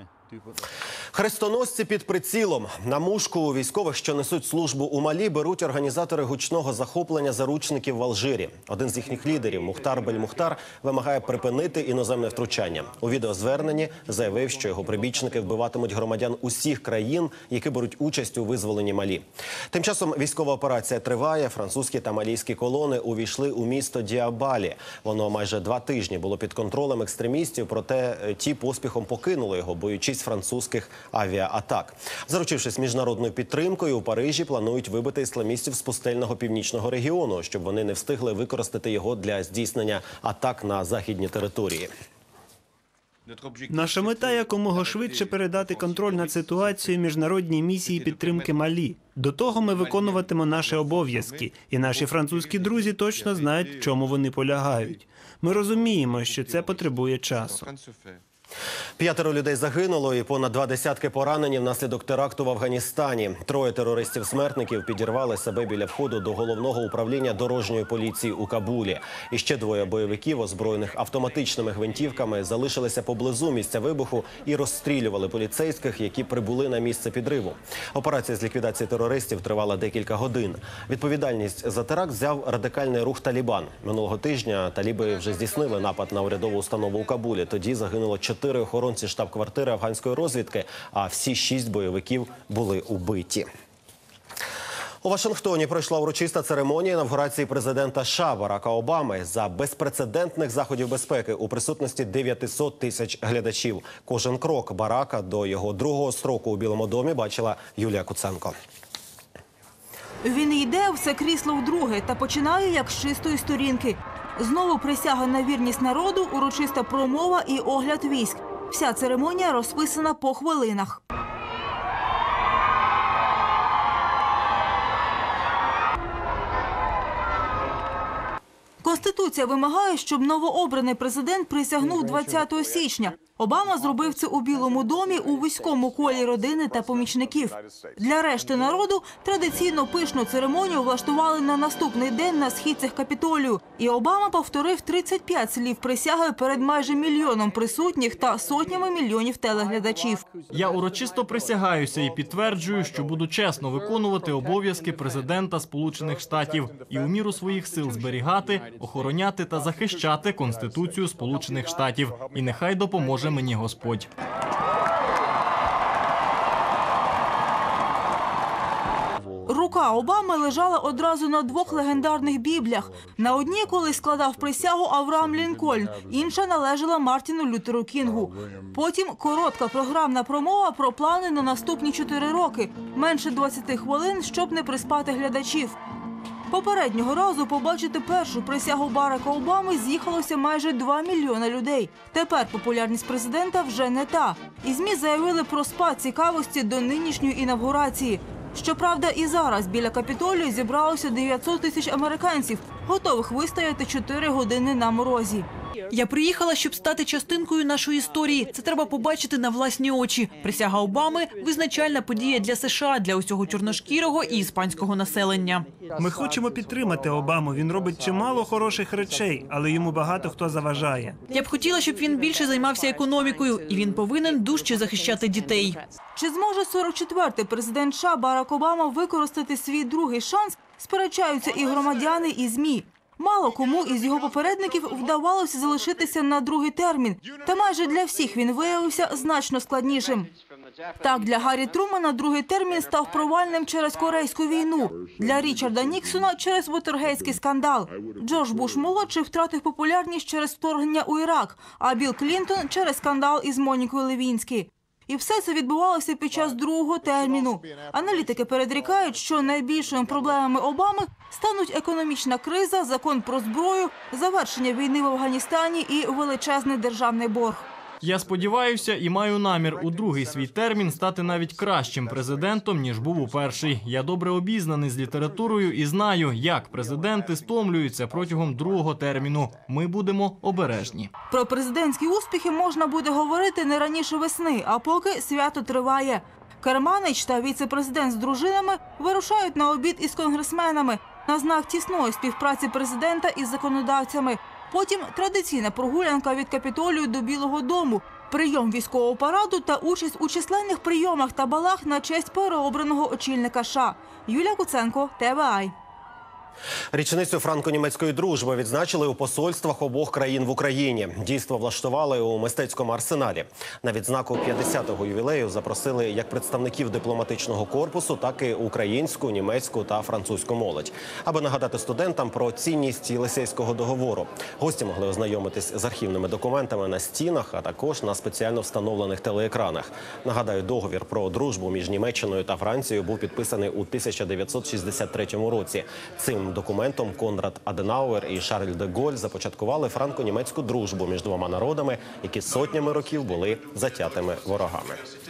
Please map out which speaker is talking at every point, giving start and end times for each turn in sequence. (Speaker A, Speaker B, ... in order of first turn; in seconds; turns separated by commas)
Speaker A: 1.1-41.9, Speaker B: 43.7-57.7, Speaker A: 59.0-93.5, Speaker A: 95.0-108.5, Speaker C: 110.2-121.0, Speaker C: 128.8-150.2, Speaker D: 150.5-164.1, Speaker C: 169.5-185.8, Speaker C: 186.5-205.5, Speaker E: 205.9-215.8, Speaker B: 215.9-221.2, Speaker E: 221.3-225.8, Speaker C: 226.1-240.3, Speaker C: 241.0-267.6, Speaker D: 268.0-281.1, Speaker C: 281.3-305.7, Speaker A: 306.9-345.0